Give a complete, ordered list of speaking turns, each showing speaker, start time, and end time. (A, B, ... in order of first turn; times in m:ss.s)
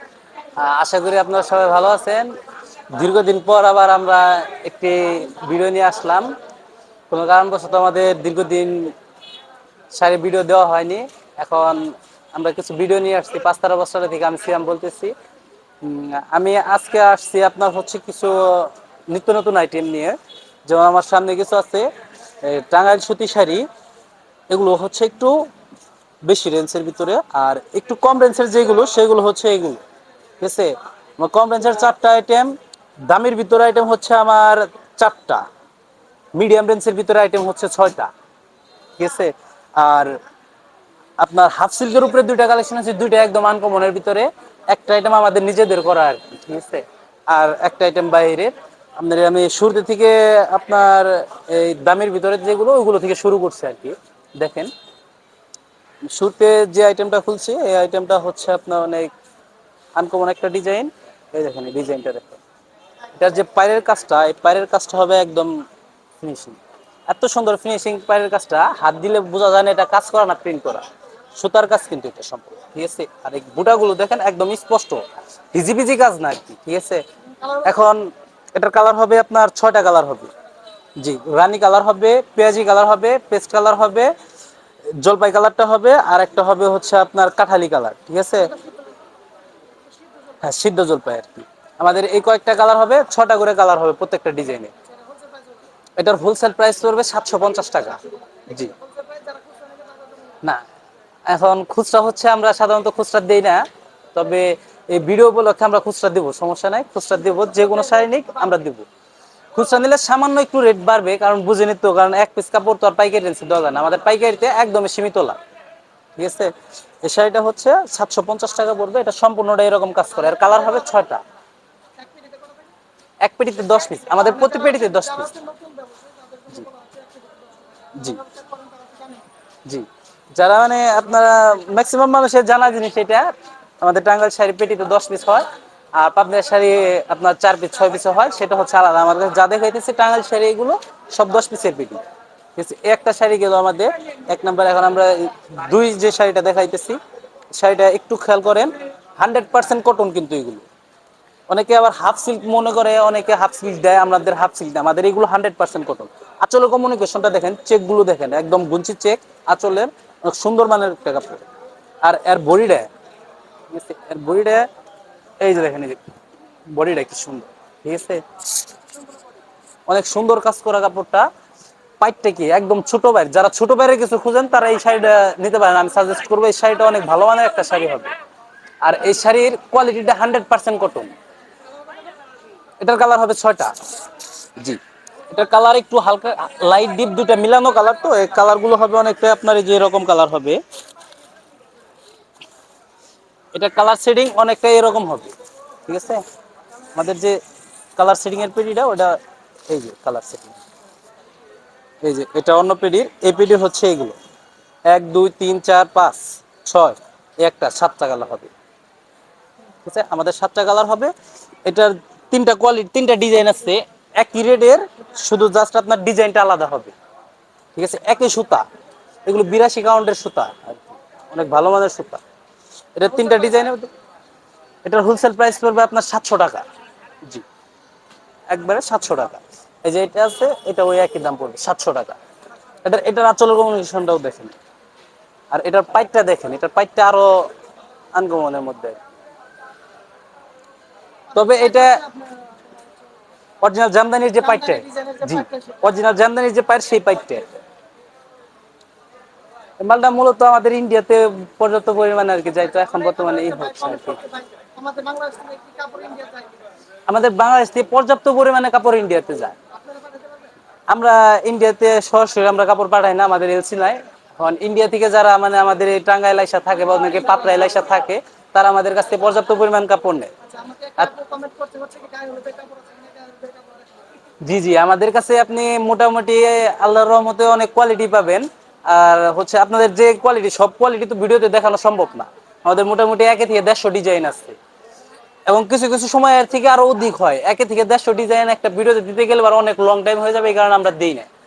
0:00.6-0:02.3 A
0:02.9-0:06.3 A
0:07.1-0:08.9 A
0:09.9-0:15.1 A
0:15.8-0:21.9 A
0:22.4-0:23.7 A
0:24.5-0:25.4 A
0:26.2-0:29.8 A
0:30.4-0:32.5 A
0:33.0-0:35.4 A
0:36.3-0:38.1 A
0:39.0-0:40.2 A
0:41.2-0:54.7 A
0:56.1-0:59.1 A
1:00.0-1:02.4 A
1:03.2-1:05.5 A
1:06.2-1:15.0 A
1:15.5-1:17.0 A
1:17.6-1:20.3 A
1:21.0-1:24.1 A
1:25.0-1:28.5 A
1:30.4-1:34.7 A
1:36.0-1:38.7 A
1:39.1-1:39.9 B
1:41.3-1:48.8 A
1:49.5-1:55.4 A
1:56.2-1:56.5 A
1:57.0-2:01.2 A
2:03.2-2:05.3 A
2:05.3-2:07.0 B
2:08.0-2:08.2 A
2:08.5-2:09.2 B
2:09.6-2:22.0 A
2:22.6-2:27.0 A
2:27.5-2:30.6 A
2:31.5-2:41.4 A
2:42.0-2:42.9 A
2:43.7-2:44.7 A
2:45.4-2:46.0 A
2:46.7-2:48.2 A
2:49.9-2:51.3 A
2:52.0-2:58.1 A
2:58.8-3:01.1 A
3:02.8-3:03.7 A
3:04.6-3:10.6 A
3:13.5-3:15.3 A
3:15.8-3:16.2 A
3:16.9-3:17.4 A
3:18.0-3:20.6 A
3:22.0-3:24.2 A
3:24.9-3:28.5 A
3:29.8-3:31.1 A
3:31.6-3:36.9 A
3:37.7-3:38.6 A
3:39.2-3:42.2 A
3:42.9-3:43.9 A
3:44.8-3:46.6 A
3:48.5-3:52.2 A
3:52.8-3:54.5 A
3:55.5-3:57.5 A
3:58.1-3:59.0 A
4:01.3-4:02.0 A
4:03.6-4:07.5 A
4:09.8-4:14.3 A
4:14.6-4:16.5 B
4:17.1-4:19.6 A
4:20.9-4:30.3 A
4:31.1-4:33.8 B
4:34.4-4:44.6 A
4:45.5-4:51.3 A